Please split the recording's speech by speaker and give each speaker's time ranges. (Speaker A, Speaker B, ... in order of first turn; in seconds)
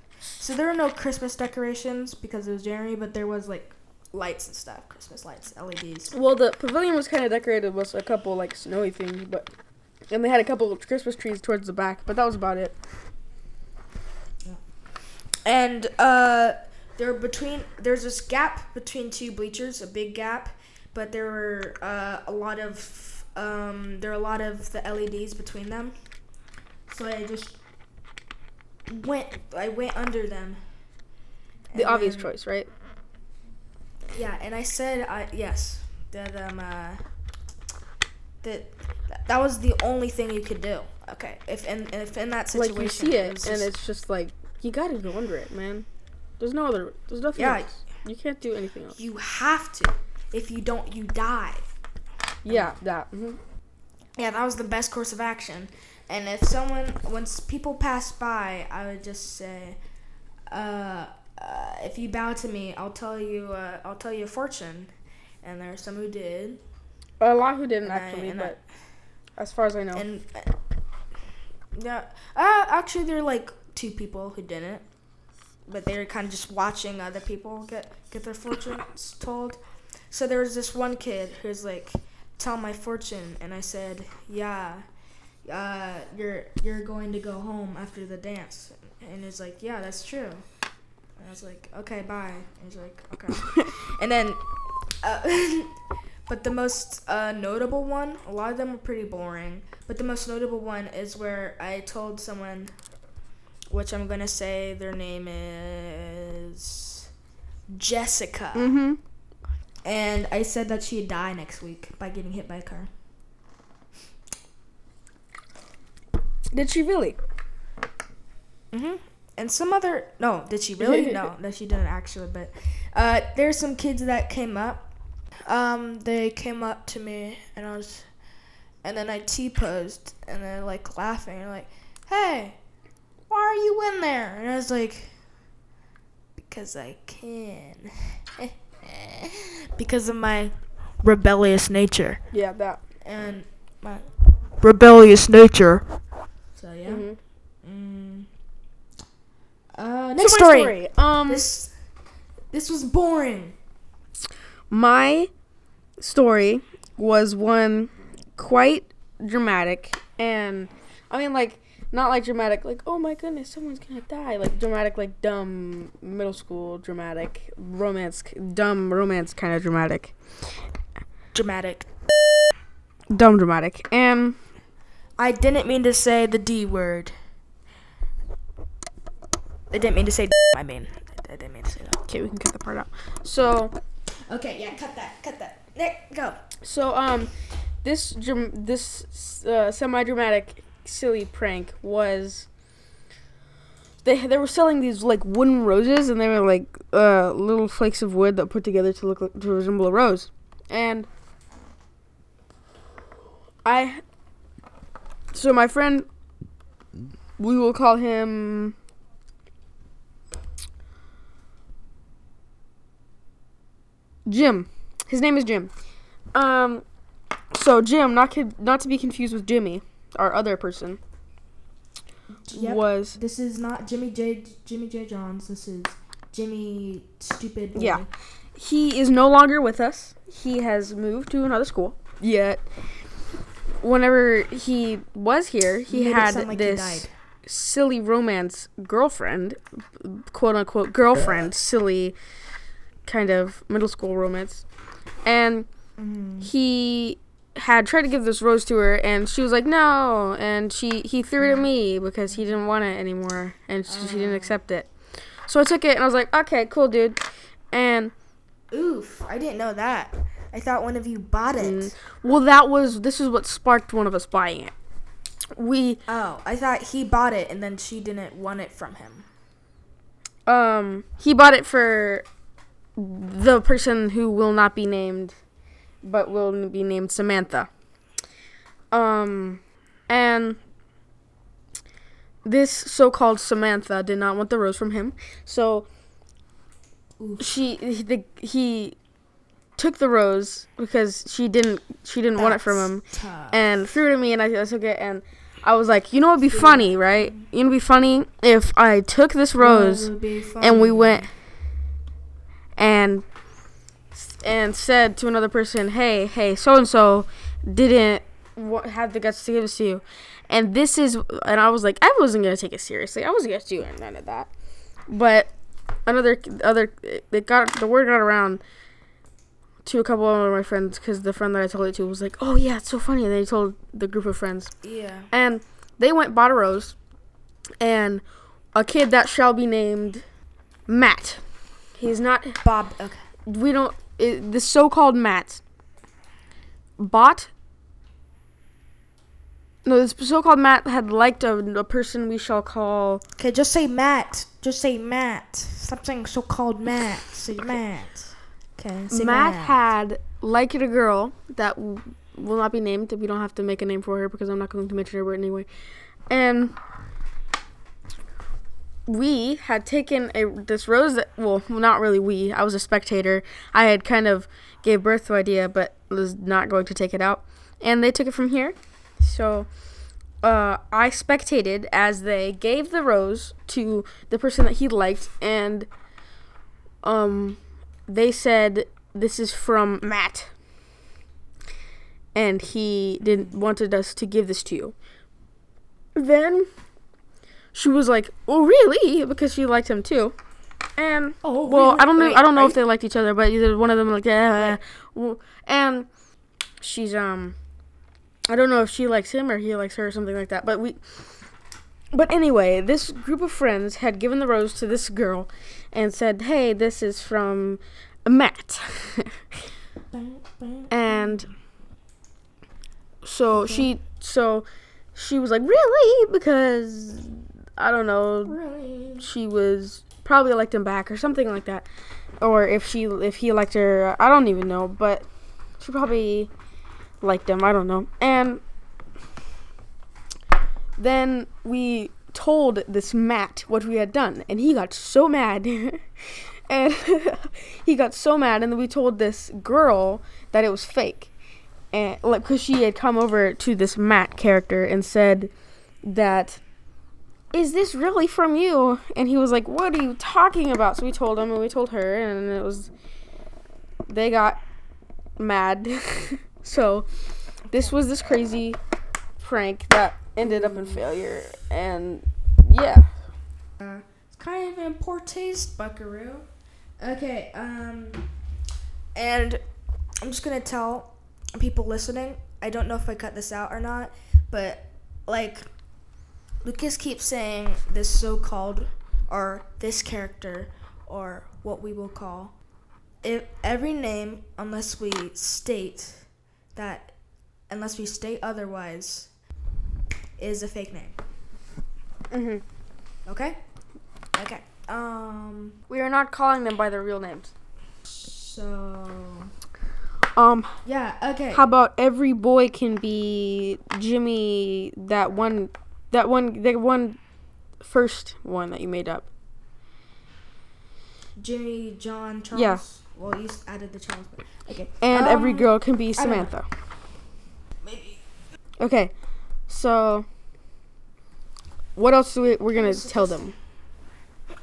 Speaker A: 0.4-6.1, 15.4-25.9, 26.9-27.6, 28.9-30.6, 31.7-32.3, 34.1-37.0, 38.4-43.7, 47.4-47.8, 49.0-51.6, 52.5-52.7, 54.2-59.8, 60.5-64.9, 65.4-66.6, 67.8-68.6, 69.9-70.5, 71.8-74.8, 75.7-79.6, 80.1-84.8, 85.5-90.5, 91.2-94.4, 95.0-95.8, 96.3-102.7, 103.7-107.1, 107.7-108.8, 109.8-112.9, 118.7-124.9, 125.5-128.1, 128.8-132.6, 133.3-135.1, 136.4-142.2, 143.0-144.1, 144.6-145.8, 146.6-147.1, 147.6-148.3, 149.8-151.7, 152.5-153.6, 171.3-171.9, 175.2-177.1, 179.7-182.0, 184.3-186.4, 222.5-228.1, 235.9-237.1, 246.0-246.5, 253.9-254.6, 258.7-261.9, 266.1-269.3, 287.2-287.5, 292.4-293.6, 296.4-297.5, 299.6-301.3, 324.8-325.3, 332.6-333.2, 343.4-349.8, 383.2-383.6, 391.4-392.8, 410.1-411.4, 413.5-413.9, 418.4-419.3, 460.4-461.0, 463.8-466.5, 467.0-468.3, 469.1-469.6, 470.2-475.7, 476.6-482.5, 483.2-487.1, 487.7-489.3, 490.4-491.2, 493.3-493.6, 494.4-495.8, 498.1-499.5, 500.8-501.6, 511.4-516.5, 517.8-518.2, 522.7-523.5
Speaker B: 6.1-9.5, 10.1-12.8, 31.7-32.7, 42.5-45.9, 46.4-49.0, 52.5-53.4, 67.2-68.6, 69.4-70.1, 108.5-109.0, 116.5-117.2, 120.8-121.2, 142.3-142.8, 146.8-147.2, 150.2-151.5, 154.7-155.3, 156.0-170.1, 173.1-174.4, 182.1-183.8, 186.6-187.3, 187.8-192.5, 194.1-201.1, 203.7-204.0, 205.3-206.1, 207.4-208.8, 214.3-215.7, 216.3-216.8, 217.5-221.0, 222.5-223.2, 227.8-228.0, 228.6-232.6, 233.8-242.2, 243.1-244.6, 245.2-245.7, 246.4-254.9, 255.5-257.2, 257.7-258.1, 261.6-264.7, 265.6-266.0, 270.5-272.2, 273.0-275.4, 276.0-277.7, 278.9-280.6, 282.4-285.9, 287.4-289.0, 289.8-301.3, 302.8-303.2, 304.1-314.5, 315.1-315.5, 316.1-318.6, 319.8-324.7, 325.3-326.9, 327.8-328.2, 328.7-330.2, 330.9-331.4, 332.0-332.6, 333.5-335.6, 337.0-337.5, 339.9-343.2, 349.1-355.7, 356.3-356.8, 359.1-369.7, 370.4-375.9, 377.0-380.5, 382.4-384.9, 386.2-386.7, 387.7-390.3, 391.0-396.1, 396.8-397.6, 398.5-401.0, 402.1-409.4, 410.9-411.5, 413.2-418.6, 419.2-421.9, 422.4-425.3, 425.8-426.5, 427.2-428.6, 431.0-441.3, 441.9-445.5, 446.0-446.6, 447.5-452.9, 454.1-454.6, 455.4-457.1, 457.7-458.8, 459.4-463.1, 492.3-492.6, 495.9-497.5, 500.4-500.8, 501.5-507.2, 507.8-509.3, 512.5-512.8, 515.0-516.7, 518.8-519.1, 519.7-520.3, 522.0-523.5